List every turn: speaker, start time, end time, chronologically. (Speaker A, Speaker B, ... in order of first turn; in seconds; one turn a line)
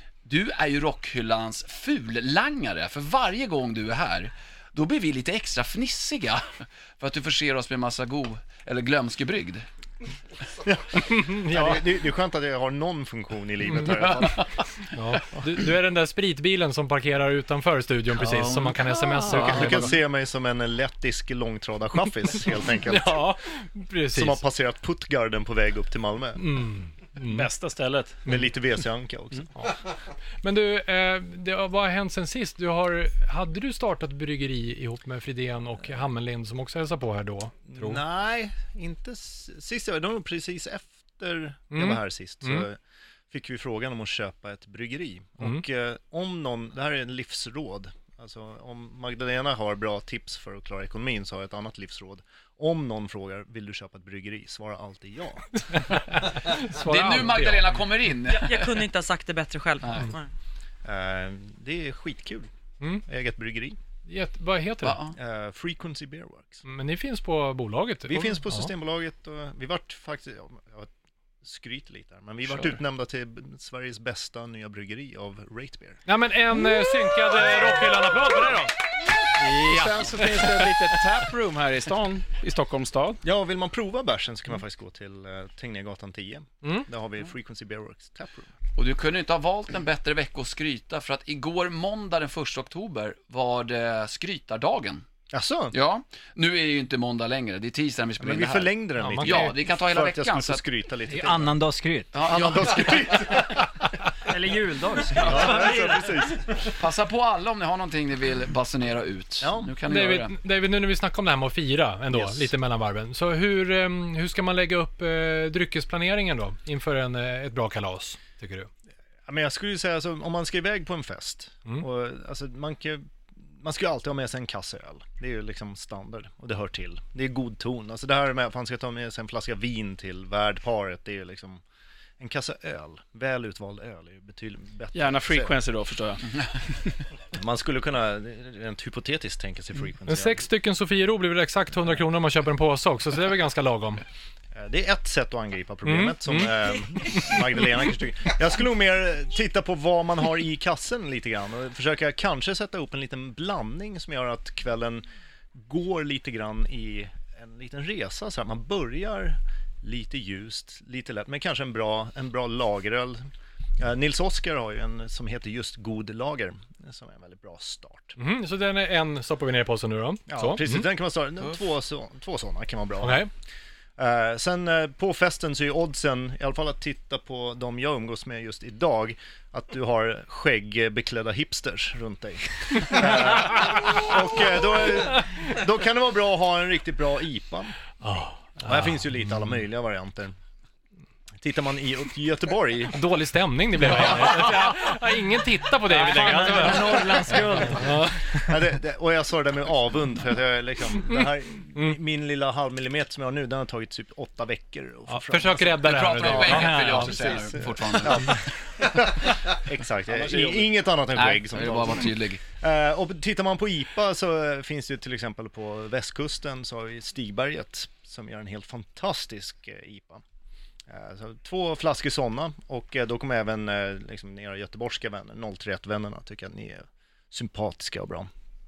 Speaker A: 0.2-9.7
Speaker B: 10.6-14.5
Speaker C: 11.1-11.8
Speaker C: 13.7-14.4
Speaker A: 13.9-14.4
Speaker C: 14.9-19.9
Speaker B: 19.3-23.3
Speaker C: 22.9-24.4
Speaker B: 24.1-26.5
Speaker C: 26.4-27.5
Speaker D: 27.2-28.2
Speaker B: 28.2-29.5
Speaker C: 30.4-38.0
Speaker B: 37.7-42.8
Speaker C: 41.7-42.6
Speaker B: 43.3-55.6
Speaker C: 55.7-57.8
Speaker A: 56.7-58.8
Speaker E: 58.3-60.3
Speaker A: 59.8-60.1
Speaker B: 60.8-62.5
Speaker B: 63.0-63.8
Speaker C: 64.0-65.0
Speaker A: 64.8-65.2
Speaker B: 65.1-66.6
Speaker C: 66.6-68.7
Speaker B: 68.1-70.9
Speaker B: 71.4-76.0
Speaker C: 76.1-78.8
Speaker D: 79.3-83.2
Speaker C: 79.7-80.6
Speaker B: 83.2-88.5
Speaker A: 88.8-95.0
Speaker B: 95.3-95.7
Speaker A: 95.7-100.6
Speaker B: 98.2-101.6
Speaker C: 99.0-99.5
Speaker F: 101.1-102.2
Speaker A: 102.1-103.5
Speaker B: 102.3-103.6
Speaker F: 104.3-106.2
Speaker B: 105.2-106.7
Speaker A: 106.8-110.3
Speaker B: 109.4-109.7
Speaker C: 109.8-118.7
Speaker B: 112.1-112.5
Speaker B: 119.3-131.6
Speaker B: 132.2-135.6
Speaker D: 134.9-136.2
Speaker B: 137.3-140.4
Speaker C: 140.1-144.0
Speaker B: 144.5-163.2
Speaker C: 145.8-146.5
Speaker B: 163.8-168.2
Speaker C: 168.2-170.8
Speaker B: 170.3-173.3
Speaker C: 173.0-173.3
Speaker B: 174.0-187.7
Speaker C: 188.0-189.4
Speaker B: 188.6-190.3
Speaker B: 191.4-193.0
Speaker C: 192.9-198.2
Speaker B: 193.8-194.7
Speaker F: 195.8-198.5
Speaker B: 198.4-220.2
Speaker C: 205.1-207.2
Speaker A: 205.8-208.4
Speaker F: 206.6-207.0
Speaker D: 210.1-210.7
Speaker A: 211.1-212.4
Speaker B: 220.9-228.3